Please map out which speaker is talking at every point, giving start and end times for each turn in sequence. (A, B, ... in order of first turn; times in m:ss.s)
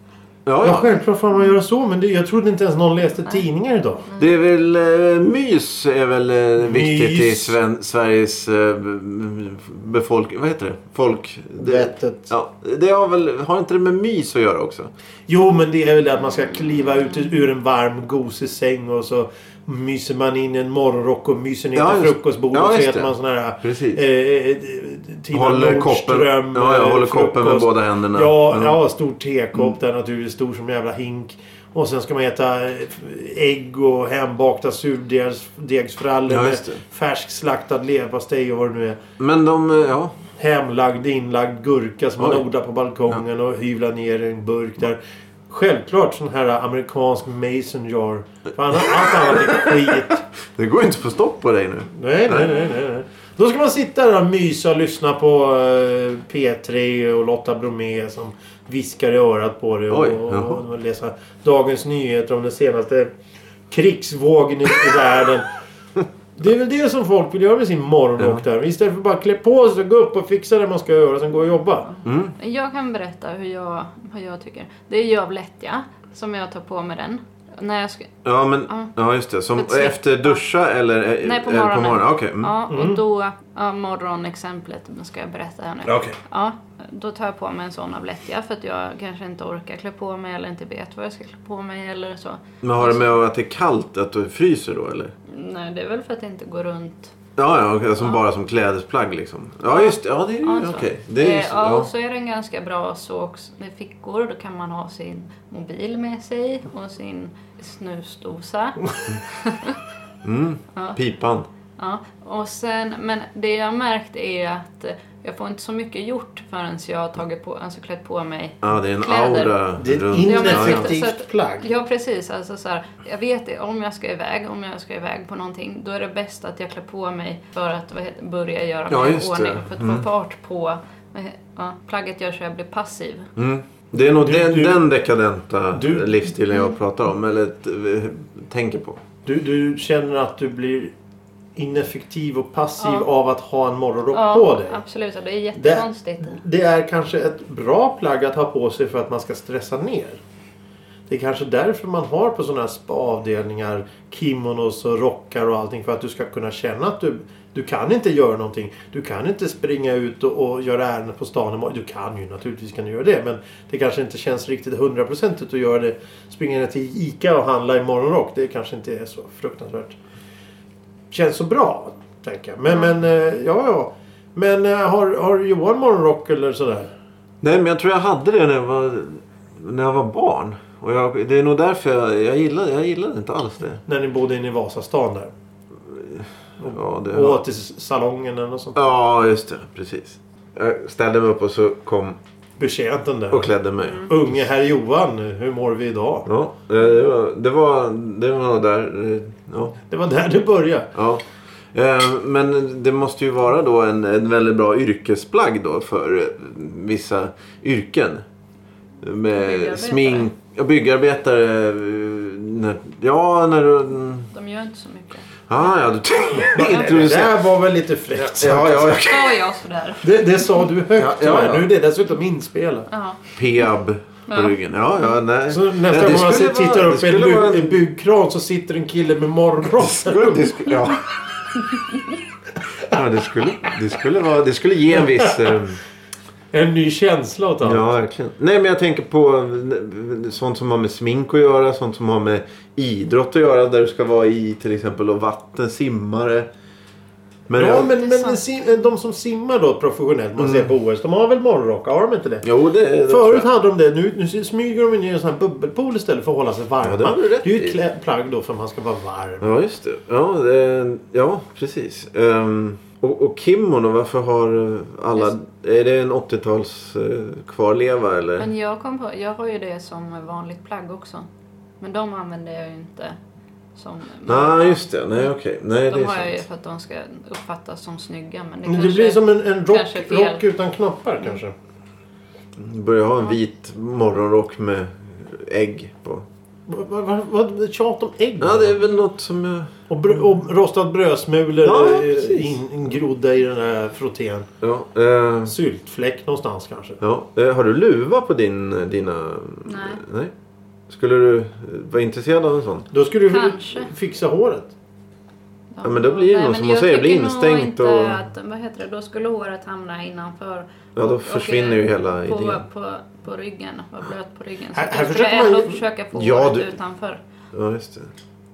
0:00.4-0:00.9 A
0:00.6-0:04.1 B
0:04.2-0:14.9 A
0:06.6-0:07.6 B
0:11.6-0:12.3 B
0:15.3-0:39.0 B
0:21.7-0:23.1 A
0:23.6-0:24.0 A
0:25.3-0:28.8 A
0:36.3-0:36.8 A
0:39.2-0:40.2 A
0:40.4-0:50.2 B
0:42.2-0:42.4 A
0:48.7-0:52.6 A
0:52.0-1:03.1 B
0:59.9-1:00.6 A
1:03.7-1:05.5 B
1:06.4-1:11.9 B
1:12.0-1:18.9 C
1:12.0-1:12.3 A
1:18.2-1:22.6 A
1:19.5-1:20.4 C
1:21.2-1:33.2 C
1:22.7-1:23.0 B
1:25.8-1:26.1 A
1:32.6-1:35.1 A
1:35.3-1:37.1 C
1:37.4-1:41.9 A
1:39.7-1:49.8 C
1:50.2-1:51.5 A
1:51.8-1:59.6 C
1:58.6-2:00.9 A
1:59.8-2:01.7 B
2:00.2-2:13.3 C
2:08.9-2:10.0 A
2:13.4-2:19.0 A
2:14.0-2:14.8 B
2:15.7-2:16.3 B
2:19.2-2:20.9 B
2:21.6-2:24.8 B
2:22.8-2:23.0 C
2:24.1-2:26.4 C
2:25.6-2:30.2 B
2:31.1-2:50.0 B
2:51.1-2:56.9 B
2:57.4-3:03.8 A
3:03.9-3:05.3 B
3:05.9-3:07.4 A
3:06.6-3:08.8 B
3:08.8-3:12.2 A
3:12.6-3:13.5 B
3:13.3-3:14.2 A
3:13.8-3:14.1 C
3:14.1-3:16.3 B
3:16.2-3:19.8 A
3:19.9-3:20.9 B
3:20.9-3:28.2 A
3:29.0-3:34.3 A
3:29.3-3:30.3 C
3:34.3-3:35.4 C
3:35.5-3:37.4 A
3:36.5-3:39.1 B
3:38.2-3:39.4 A
3:39.0-3:40.1 C
3:40.0-3:42.9 B
3:41.0-3:41.7 A
3:42.9-3:43.2 C
3:43.4-3:47.8 A
3:44.3-3:44.6 C
3:45.5-3:50.6 B
3:49.7-3:51.0 A
3:52.8-3:55.8 A
3:55.0-3:55.6 B
3:56.5-3:57.8 B
3:57.6-4:06.5 A
4:07.5-4:07.9 A
4:07.5-4:12.5 B
4:07.9-4:08.8 C
4:10.4-4:10.7 A
4:12.4-4:13.5 A
4:13.1-4:19.5 B
4:16.8-4:17.8 A
4:19.4-4:28.5 A
4:28.4-4:31.3 C
4:31.8-4:33.2 C
4:33.8-4:35.3 C
4:34.3-4:36.4 A
4:35.9-4:40.4 C
4:38.6-4:41.5 B
4:42.6-4:46.2 A
4:46.7-4:48.8 B
4:48.4-4:49.7 A
4:49.9-4:54.5 B
4:51.6-4:52.6 A
4:54.6-4:55.5 A
4:55.4-4:57.0 B
4:57.0-5:00.3 A
4:59.6-5:00.0 C
5:00.9-5:02.9 A
5:02.9-5:04.7 B
5:03.3-5:03.9 C
5:05.7-5:17.2 C
5:05.8-5:08.2 A
5:11.0-5:12.6 A
5:14.7-5:15.8 B
5:16.1-5:16.7 A
5:17.5-5:18.1 A